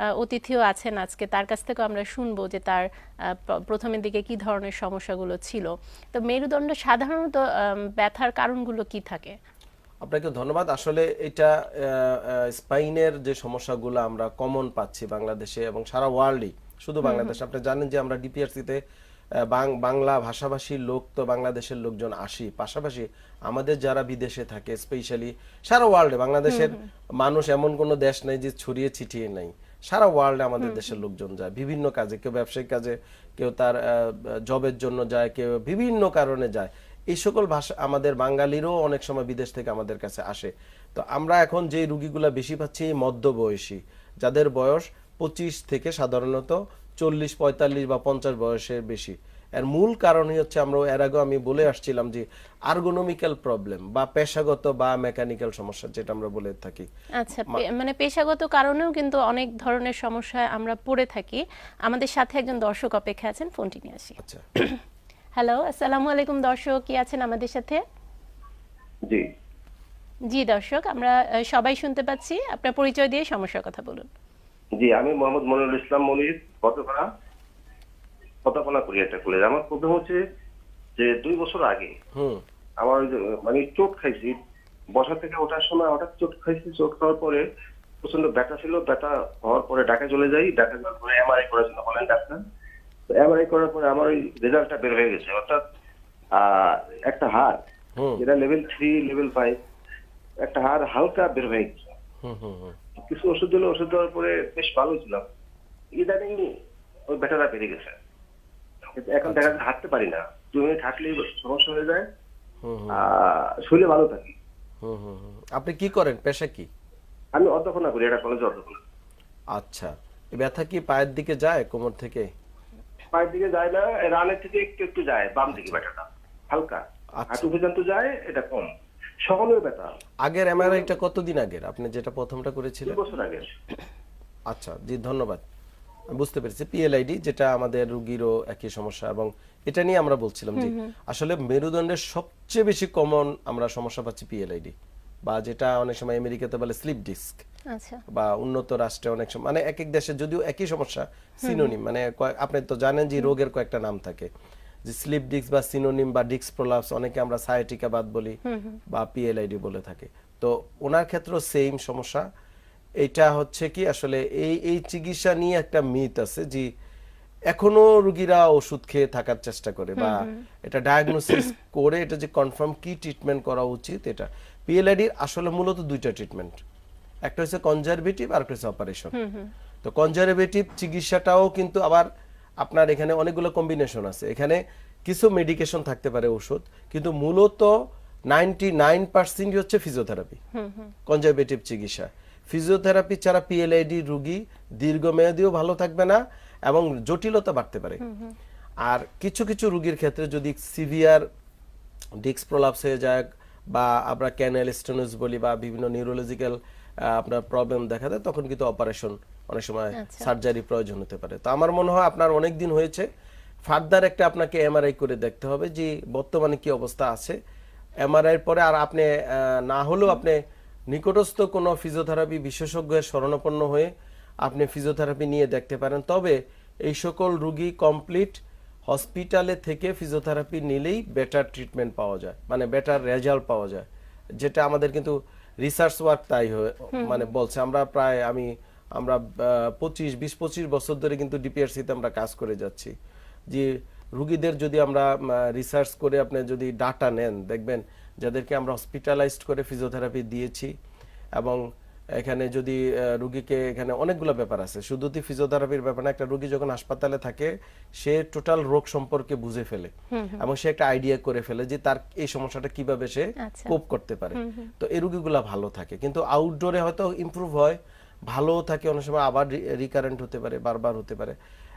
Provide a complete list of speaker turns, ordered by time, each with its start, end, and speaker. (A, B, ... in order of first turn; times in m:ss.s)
0:00.2-0:09.3 A
0:10.0-0:18.8 B
0:17.0-0:17.4 A
0:19.4-0:56.9 B
0:26.5-0:26.8 A
0:30.6-0:31.0 A
0:57.2-1:04.8 A
1:05.4-1:07.8 A
1:10.3-1:14.1 A
1:14.8-1:17.0 C
1:18.4-1:20.2 C
1:21.0-1:21.9 C
1:22.2-1:22.4 B
1:22.8-1:24.4 C
1:24.9-1:27.4 C
1:28.0-1:32.4 C
1:33.1-1:35.6 C
1:36.4-1:37.6 C
1:38.0-1:38.2 B
1:38.2-1:39.6 C
1:40.4-1:41.9 C
1:42.2-1:42.8 B
1:43.0-1:45.2 C
1:46.0-1:46.5 C
1:47.1-1:47.9 C
1:48.9-1:52.1 C
1:49.2-1:49.6 B
1:52.6-1:53.1 B
1:52.9-1:54.3 C
1:54.8-1:56.7 B
1:57.3-1:58.8 C
1:59.5-2:02.3 B
2:03.1-2:08.7 C
2:05.5-2:05.8 B
2:07.2-2:07.5 B
2:09.2-2:10.0 C
2:10.2-2:13.0 B
2:10.6-2:10.9 C
2:12.8-2:13.5 C
2:14.5-2:15.4 B
2:16.1-2:24.7 B
2:20.6-2:20.9 A
2:25.2-2:27.4 B
2:27.7-2:28.0 A
2:28.1-2:34.3 B
2:31.4-2:31.7 A
2:34.8-2:38.4 B
2:38.5-2:38.8 A
2:38.9-2:42.2 B
2:43.0-2:46.7 B
2:47.5-2:56.6 B
2:50.0-2:50.4 A
2:57.3-2:59.1 B
2:59.1-2:59.5 A
2:59.8-3:02.1 B
3:02.6-3:07.7 B
3:08.3-3:10.4 B
3:10.5-3:10.9 A
3:11.1-3:18.0 B
3:18.0-3:18.3 A
3:18.8-3:21.2 B
3:22.2-3:33.1 B
3:30.0-3:30.3 A
3:33.7-3:37.4 B
3:38.0-3:53.9 B
3:54.4-4:02.9 B
3:56.9-3:57.3 A
4:03.5-4:10.7 B
4:12.2-4:31.4 B
4:20.1-4:20.4 A
4:23.4-4:23.7 A
4:24.3-4:24.7 A